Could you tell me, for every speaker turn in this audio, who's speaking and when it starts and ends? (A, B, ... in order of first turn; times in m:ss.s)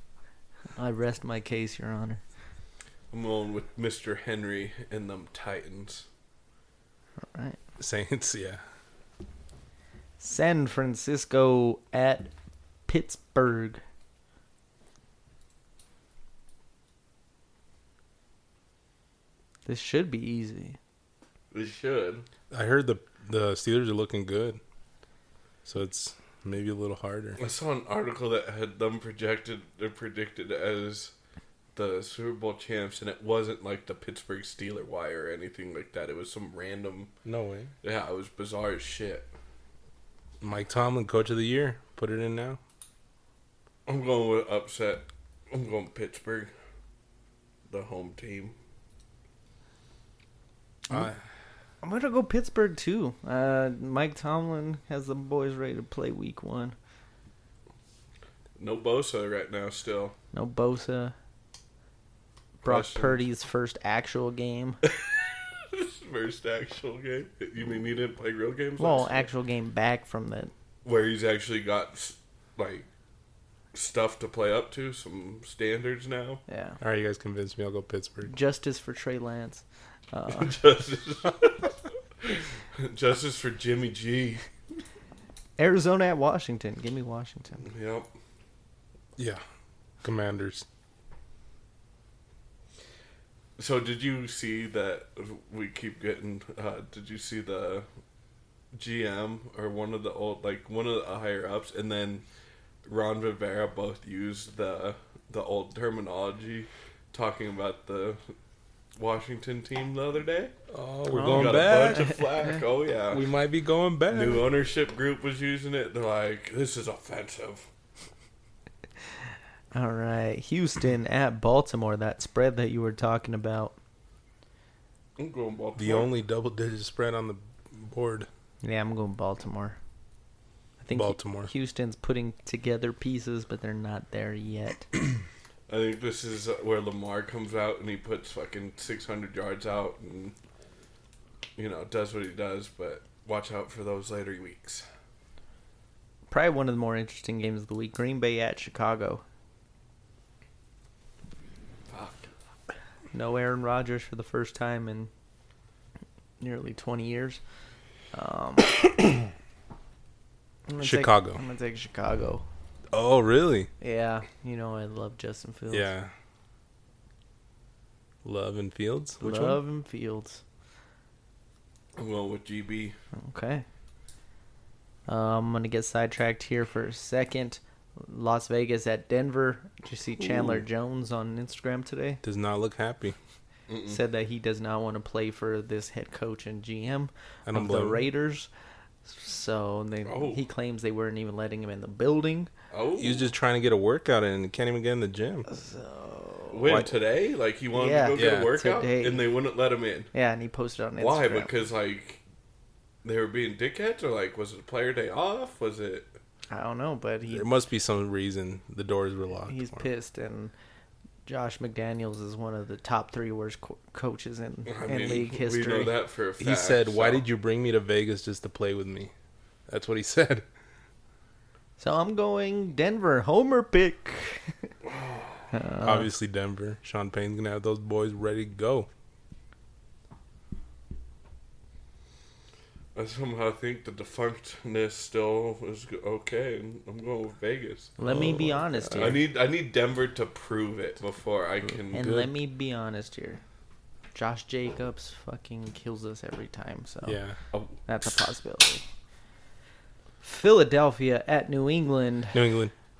0:00.8-0:02.2 A
0:03.1-0:06.1 B
0:07.2-0:07.6 A
0:07.8-0:08.6 C
0:10.2-0:12.3 A
0:12.9-0:13.8 A
0:19.6-0:20.8 A
0:21.5-0:22.3 B
0:22.5-0:24.6 C
0:25.6-0:27.4 C
0:27.4-0:31.1 B
0:31.8-0:37.1 B
0:37.2-0:37.7 C
0:37.8-0:39.3 B
0:40.4-0:42.6 C
0:43.9-0:46.5 B
0:47.7-0:48.6 B
0:50.9-0:51.2 C
0:51.8-0:56.8 A
0:58.6-1:00.2 B
1:00.3-1:01.1 A
1:02.6-1:04.8 A
1:02.6-1:03.2 B
1:04.8-1:09.3 B
1:08.8-1:10.5 A
1:10.8-1:12.9 B
1:13.7-1:16.4 B
1:16.5-1:16.8 A
1:16.8-1:18.3 C
1:18.3-1:20.6 A
1:20.3-1:24.4 B
1:25.6-1:27.6 A
1:27.6-1:28.1 B
1:29.2-1:29.4 C
1:30.0-1:30.6 C
1:33.6-1:37.9 B
1:38.7-1:42.2 B
1:42.8-1:48.3 B
1:49.0-1:50.5 B
1:50.7-1:52.2 C
1:51.1-1:52.6 A
1:51.2-1:53.3 B
1:53.1-1:54.5 C
1:54.1-1:57.7 B
1:59.7-2:03.8 A
2:05.2-2:06.1 B
2:05.8-2:08.3 C
2:08.6-2:09.8 A
2:10.8-2:14.9 A
2:10.9-2:11.5 C
2:15.7-2:20.4 B
2:21.6-2:24.8 B
2:26.3-2:29.2 A
2:31.9-2:32.3 B
2:33.1-2:35.1 A
2:36.4-2:37.4 A
2:38.1-2:38.8 A
2:40.7-2:42.5 A
2:40.8-2:41.4 C
2:42.9-2:43.7 C
2:43.8-2:45.9 A
2:45.7-2:46.1 C
2:48.2-2:49.6 C
2:49.2-2:50.4 A
2:52.0-2:53.0 B
2:53.1-2:53.6 A
2:55.1-3:02.2 A
3:00.2-3:00.6 B
3:02.2-3:03.2 C
3:03.7-3:04.0 B
3:03.9-3:08.5 A
3:07.5-3:08.0 C
3:09.0-3:12.5 A
3:10.1-3:10.4 B
3:12.7-3:13.3 B
3:13.0-3:15.5 C
3:15.5-3:16.9 A
3:16.5-3:20.1 B
3:16.6-3:16.9 C
3:17.7-3:19.2 A
3:18.1-3:18.5 C
3:20.1-3:21.5 A
3:21.0-3:22.2 B
3:23.0-3:26.1 B
3:26.5-3:27.5 A
3:27.3-3:29.9 C
3:29.5-3:30.5 A
3:31.3-3:35.9 A
3:34.7-3:37.2 B
3:36.4-3:39.1 C
3:39.7-3:40.4 C
3:41.8-3:44.7 A
3:44.8-3:45.6 B
3:45.5-3:46.1 A
3:45.8-3:48.9 C
3:53.0-4:02.2 B
3:58.0-3:59.2 A
3:58.1-3:59.2 C
4:01.9-4:03.4 A
4:01.9-4:02.3 C
4:04.1-4:07.2 A
4:07.0-4:07.4 C
4:07.5-4:07.8 B
4:07.9-4:08.8 A
4:10.2-4:12.4 A
4:12.3-4:12.7 C